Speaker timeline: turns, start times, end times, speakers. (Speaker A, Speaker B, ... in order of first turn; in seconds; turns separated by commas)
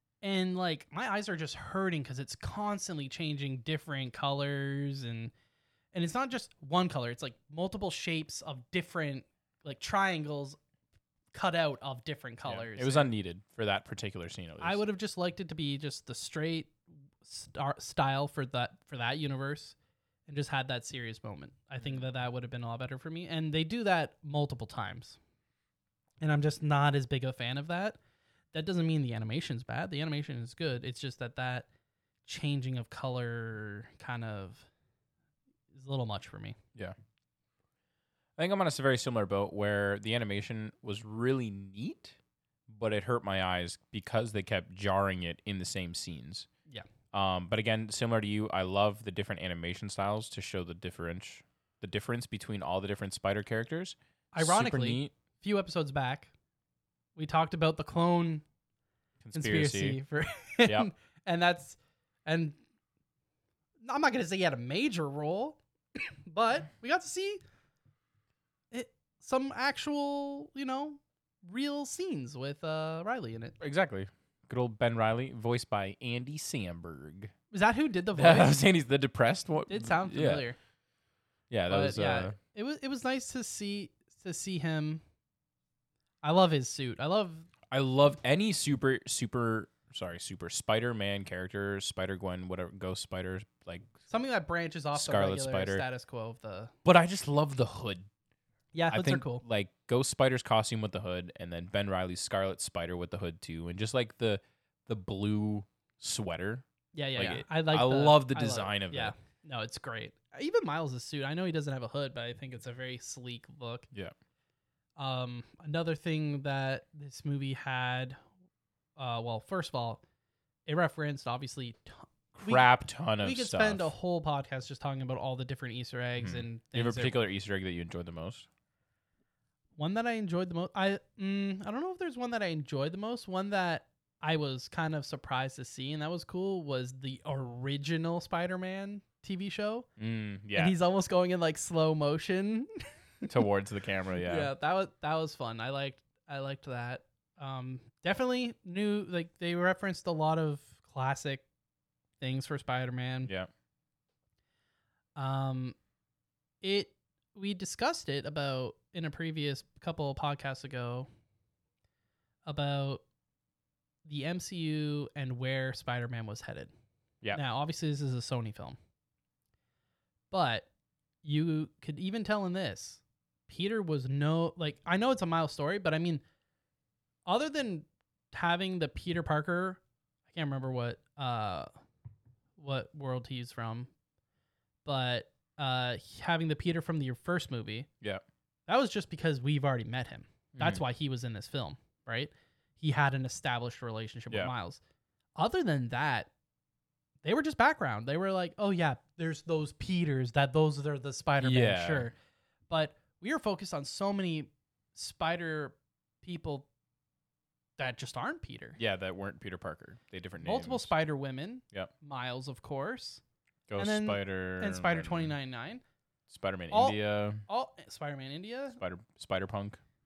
Speaker A: 0.2-5.3, Speaker A: 5.9-10.6, Speaker A: 11.3-13.1, Speaker B: 12.4-14.8, Speaker A: 14.6-19.8, Speaker A: 20.3-25.2, Speaker A: 26.2-28.0, Speaker A: 28.5-31.7, Speaker A: 32.2-34.7, Speaker A: 35.7-36.6, Speaker B: 38.4-42.1, Speaker B: 42.7-46.5, Speaker B: 47.1-55.1, Speaker A: 54.3-56.3, Speaker A: 57.1-58.4, Speaker B: 59.2-60.0, Speaker A: 59.3-62.6, Speaker B: 60.6-60.9, Speaker A: 63.8-67.4, Speaker A: 68.7-73.6, Speaker B: 73.6-77.3, Speaker A: 77.5-78.6, Speaker B: 78.1-80.5, Speaker A: 79.7-80.6, Speaker B: 81.5-82.4, Speaker A: 81.7-85.0, Speaker A: 86.2-87.5, Speaker B: 87.7-94.0, Speaker A: 94.1-96.7, Speaker B: 94.9-95.8, Speaker B: 96.8-98.1, Speaker A: 98.7-99.4, Speaker B: 98.9-106.6, Speaker A: 106.9-113.9, Speaker B: 107.2-109.1, Speaker A: 115.0-118.2, Speaker A: 119.0-120.0, Speaker A: 120.7-127.2, Speaker B: 122.3-123.9, Speaker B: 126.2-128.5, Speaker A: 129.8-139.9, Speaker B: 140.0-140.8, Speaker A: 140.6-142.7, Speaker B: 143.2-144.5, Speaker A: 144.2-151.4, Speaker A: 152.2-153.3, Speaker A: 155.2-155.8, Speaker A: 156.6-161.1, Speaker A: 162.4-163.0, Speaker A: 164.1-166.7, Speaker A: 167.3-168.8, Speaker A: 170.3-170.7, Speaker A: 171.2-176.2, Speaker A: 177.3-179.8, Speaker A: 180.3-181.7, Speaker A: 182.6-183.9, Speaker A: 184.8-187.9, Speaker A: 188.7-194.8, Speaker B: 190.6-190.8, Speaker A: 195.4-196.3, Speaker A: 197.2-202.1, Speaker B: 201.4-202.1, Speaker A: 202.7-206.7, Speaker A: 207.8-208.8, Speaker B: 208.8-210.9, Speaker A: 210.4-213.2, Speaker B: 213.7-215.3, Speaker A: 213.8-215.8, Speaker B: 216.3-217.4, Speaker A: 216.7-218.8, Speaker B: 218.8-219.8